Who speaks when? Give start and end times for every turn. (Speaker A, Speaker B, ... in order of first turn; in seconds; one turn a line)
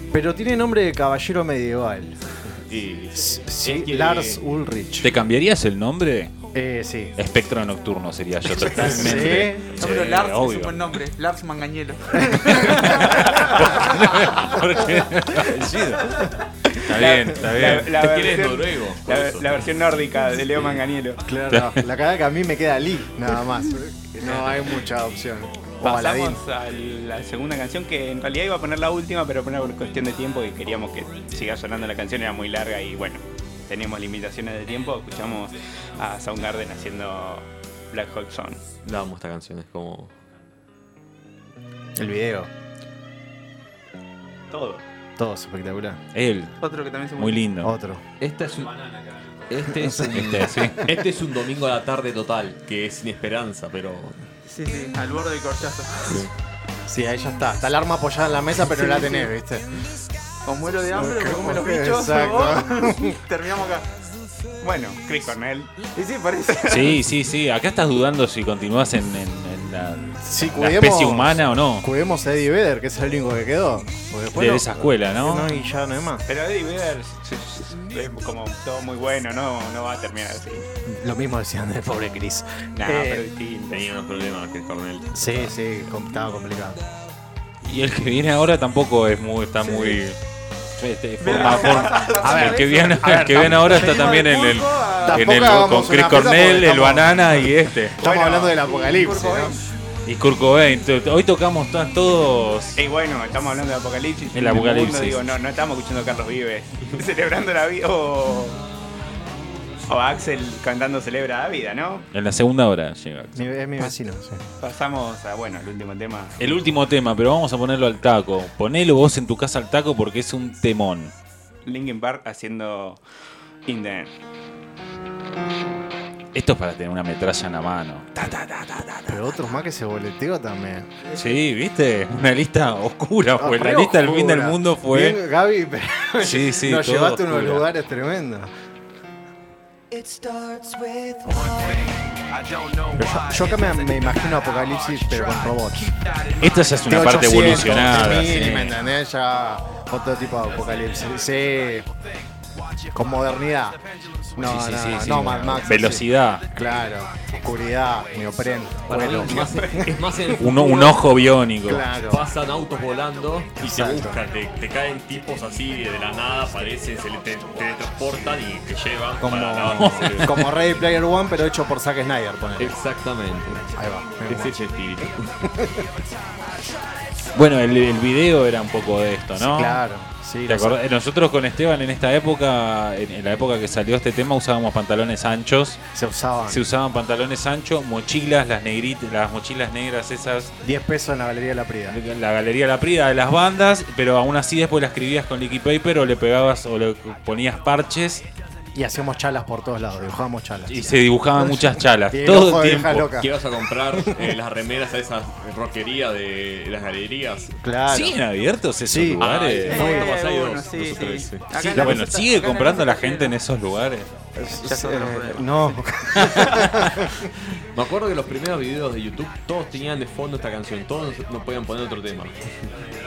Speaker A: 0.1-2.2
Speaker B: 2.6-4.4
Speaker A: 3.1-5.2
Speaker C: 5.0-6.3
Speaker A: 6.5-7.2
Speaker C: 7.2-10.8
Speaker A: 8.6-9.8
Speaker D: 9.8-13.1
Speaker C: 12.2-16.1
Speaker E: 16.7-21.2
Speaker C: 16.8-17.9
Speaker B: 17.6-19.7
Speaker B: 20.5-20.8
Speaker A: 21.2-26.4
Speaker C: 21.5-21.8
Speaker B: 24.2-24.6
Speaker E: 25.8-38.7
Speaker B: 38.8-40.1
Speaker A: 42.0-42.5
Speaker E: 44.5-44.8
Speaker A: 45.2-46.0
Speaker C: 46.1-46.5
Speaker D: 46.6-47.4
Speaker C: 47.2-47.7
Speaker A: 47.6-48.0
Speaker B: 48.2-54.2
Speaker C: 50.1-50.9
Speaker D: 54.5-56.2
Speaker A: 56.9-59.7
Speaker D: 58.7-59.3
Speaker D: 60.5-63.9
Speaker A: 60.9-63.2
Speaker E: 64.6-65.7
Speaker D: 66.0-67.0
Speaker C: 66.7-71.9
Speaker A: 70.2-76.3
Speaker C: 74.3-75.5
Speaker E: 76.3-80.7
Speaker A: 80.9-83.3
Speaker E: 82.8-83.9
Speaker B: 83.7-85.5
Speaker A: 85.1-86.8
Speaker C: 87.6-90.2
Speaker D: 89.6-90.0
Speaker C: 90.7-98.0
Speaker D: 91.2-93.0
Speaker A: 92.2-94.2
Speaker D: 93.6-95.1
Speaker A: 95.0-99.6
Speaker E: 98.0-98.6
Speaker D: 98.7-99.6
Speaker C: 100.0-102.8
Speaker E: 102.8-108.6
Speaker C: 104.3-105.3
Speaker E: 109.9-112.1
Speaker C: 112.1-113.5
Speaker A: 113.3-114.4
Speaker E: 114.6-116.6
Speaker C: 116.4-121.1
Speaker E: 121.7-123.0
Speaker E: 123.7-124.1
Speaker C: 126.3-129.3
Speaker A: 129.1-130.9
Speaker C: 131.1-135.2
Speaker A: 133.4-138.5
Speaker C: 136.2-137.7
Speaker D: 140.1-140.8
Speaker A: 142.9-146.0
Speaker C: 146.4-148.8
Speaker A: 146.8-151.9
Speaker A: 152.9-153.8
Speaker A: 154.3-159.9
Speaker C: 154.4-156.4
Speaker B: 158.9-161.0
Speaker C: 160.4-161.9
Speaker A: 161.7-162.2
Speaker B: 162.1-170.4
Speaker A: 163.6-164.2
Speaker A: 169.2-172.8
Speaker C: 169.8-170.5
Speaker B: 172.6-173.7
Speaker A: 173.7-174.6
Speaker B: 174.3-175.5
Speaker C: 177.3-179.8
Speaker A: 179.3-180.8
Speaker C: 180.5-185.8
Speaker A: 185.9-186.6
Speaker C: 186.5-190.5
Speaker A: 190.6-192.0
Speaker C: 191.9-198.2
Speaker A: 198.7-203.3
Speaker C: 200.7-203.1
Speaker B: 203.2-207.6
Speaker A: 207.6-208.2
Speaker C: 207.9-210.0
Speaker A: 208.8-210.1
Speaker B: 209.2-211.9
Speaker D: 209.6-213.3
Speaker C: 211.6-214.1
Speaker A: 211.8-212.1
Speaker A: 214.3-217.3
Speaker D: 214.6-215.8
Speaker C: 216.2-216.8
Speaker B: 217.7-222.7